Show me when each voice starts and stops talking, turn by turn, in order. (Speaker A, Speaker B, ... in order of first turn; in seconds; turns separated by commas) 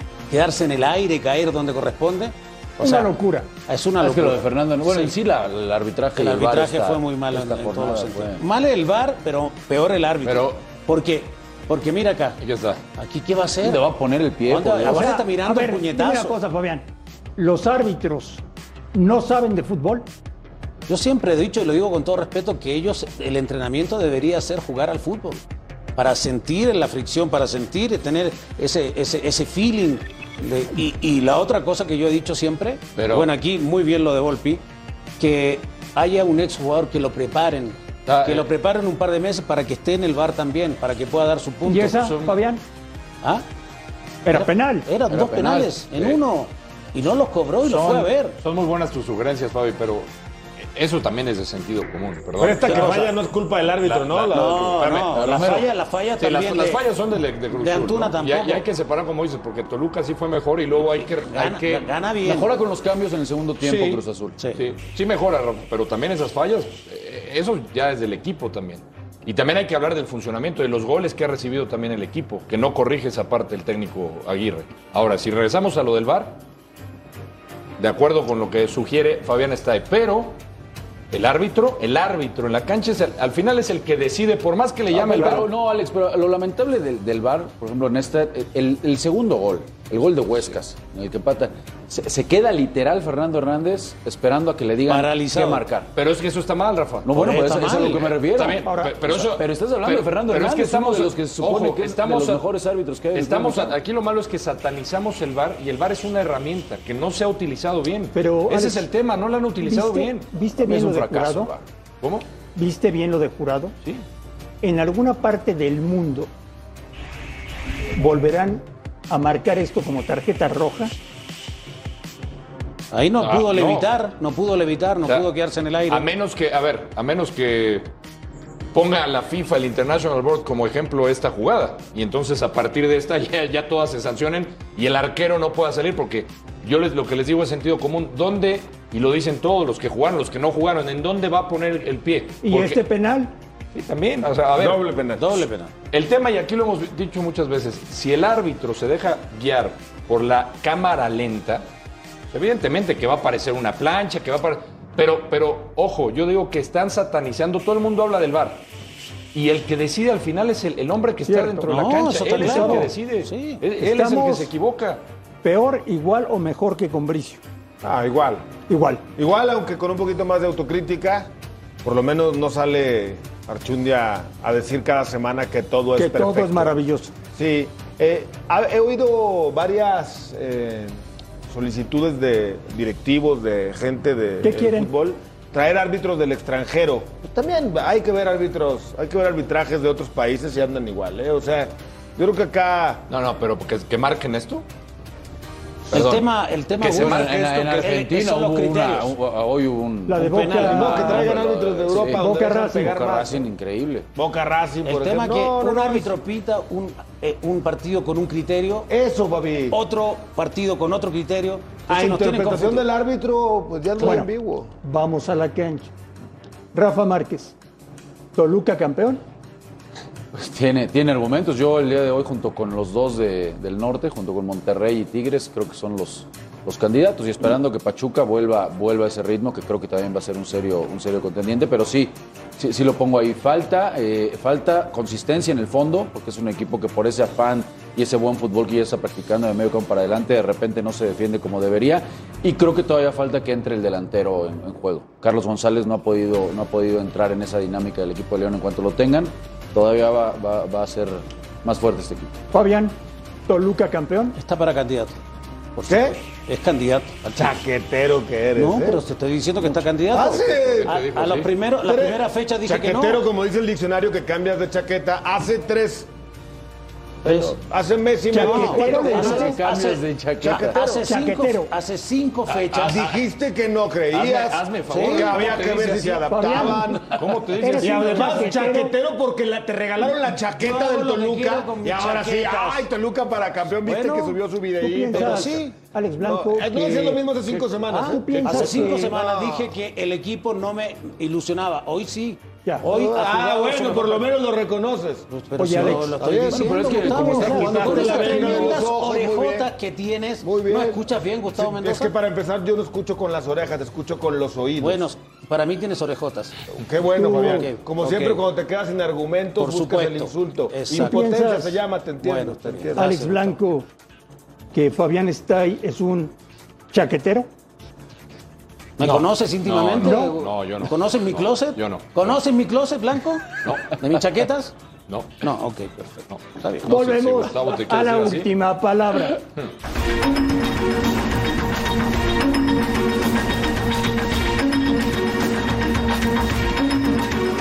Speaker A: 0.3-3.1, Speaker B: 2.8-3.5, Speaker A: 3.7-5.2, Speaker C: 4.0-8.4, Speaker A: 6.2-12.4, Speaker D: 10.2-10.6, Speaker D: 12.4-12.8, Speaker A: 13.0-13.8, Speaker C: 13.6-15.1, Speaker A: 14.4-16.4, Speaker B: 14.9-18.4, Speaker B: 18.9-20.1, Speaker A: 20.9-25.4, Speaker A: 26.0-34.6, Speaker D: 33.0-33.3, Speaker A: 35.2-42.2, Speaker D: 38.1-38.5, Speaker B: 41.6-42.6, Speaker B: 44.2-44.9, Speaker A: 44.3-48.4, Speaker C: 45.1-46.0, Speaker D: 47.6-50.1, Speaker D: 50.6-53.1, Speaker E: 52.4-55.0, Speaker A: 52.6-53.1, Speaker D: 53.8-55.3, Speaker A: 54.3-56.8, Speaker C: 55.1-55.7, Speaker D: 56.2-62.0, Speaker A: 57.5-58.6, Speaker A: 61.2-62.5, Speaker C: 62.2-64.4, Speaker D: 63.7-64.0, Speaker D: 64.5-76.4, Speaker D: 77.8-80.4, Speaker D: 81.1-85.5, Speaker C: 84.9-95.9, Speaker A: 94.9-95.7, Speaker D: 96.0-102.4, Speaker C: 97.0-103.8, Speaker A: 97.2-98.0, Speaker B: 98.7-99.0, Speaker D: 103.1-110.3, Speaker B: 108.1-108.9, Speaker B: 109.6-111.5, Speaker C: 110.6-111.6, Speaker D: 112.0-112.3, Speaker B: 112.5-113.8, Speaker B: 114.6-116.3, Speaker B: 118.0-120.9, Speaker A: 122.9-126.1, Speaker D: 123.2-123.9, Speaker D: 125.0-125.3, Speaker D: 125.9-127.9, Speaker D: 128.7-142.8, Speaker B: 142.4-143.3, Speaker D: 143.7-144.8, Speaker E: 144.6-145.5, Speaker A: 145.2-145.7, Speaker D: 145.9-151.7, Speaker D: 152.3-158.7, Speaker D: 159.3-165.0, Speaker B: 161.3-162.9, Speaker A: 161.7-163.6, Speaker B: 163.8-164.5, Speaker B: 165.4-167.4, Speaker E: 167.8-168.5, Speaker B: 168.7-169.0, Speaker E: 169.2-171.3, Speaker E: 171.8-176.7, Speaker B: 176.0-177.1, Speaker E: 177.3-193.0, Speaker B: 184.4-184.9, Speaker D: 193.1-194.7, Speaker A: 195.9-199.1, Speaker D: 195.9-198.0, Speaker C: 196.9-204.1, Speaker B: 200.1-201.3, Speaker A: 200.2-201.3, Speaker E: 200.6-203.5, Speaker B: 202.1-203.0, Speaker E: 204.2-206.2, Speaker A: 204.8-208.9, Speaker E: 208.9-209.8, Speaker A: 209.7-212.9, Speaker E: 211.9-214.7, Speaker B: 214.0-214.3, Speaker B: 214.8-215.9, Speaker B: 216.7-217.6, Speaker B: 218.3-219.2, Speaker C: 220.3-252.3, Speaker B: 252.5-253.0, Speaker B: 253.5-254.4, Speaker A: 254.3-255.2, Speaker A: 255.8-257.6, Speaker E: 255.9-256.2, Speaker E: 257.4-259.0, Speaker A: 258.6-263.3, Speaker E: 259.7-261.0, Speaker D: 260.4-261.5, Speaker E: 261.8-266.1, Speaker A: 267.2-267.6, Speaker E: 267.3-269.5, Speaker B: 268.3-269.6, Speaker A: 268.3-273.1, Speaker C: 268.7-271.0, Speaker B: 271.0-271.7, Speaker D: 272.5-273.1, Speaker E: 272.9-277.2, Speaker D: 274.1-276.3, Speaker A: 274.9-275.6, Speaker B: 276.3-276.9, Speaker D: 277.1-278.6, Speaker B: 277.6-278.9, Speaker E: 277.8-285.7, Speaker A: 280.6-282.9, Speaker A: 283.8-284.4, Speaker B: 284.8-287.2, Speaker A: 285.1-285.7, Speaker E: 286.2-289.8, Speaker A: 287.8-294.2, Speaker B: 288.0-289.1, Speaker E: 292.9-295.3, Speaker A: 295.3-302.1, Speaker B: 295.6-298.8, Speaker E: 295.8-299.7, Speaker C: 296.5-298.4, Speaker E: 300.4-305.1, Speaker A: 304.8-306.6, Speaker E: 306.8-313.3, Speaker B: 307.2-307.7, Speaker A: 307.3-308.4, Speaker A: 309.6-311.2, Speaker B: 311.0-311.8, Speaker A: 312.2-313.5, Speaker B: 313.0-313.9, Speaker B: 314.7-316.3, Speaker B: 316.9-317.5, Speaker A: 319.0-324.7, Speaker D: 319.0-322.4, Speaker B: 320.0-320.4, Speaker D: 323.6-324.0, Speaker D: 325.1-325.5, Speaker A: 325.4-326.9, Speaker D: 326.3-328.5, Speaker B: 326.9-329.4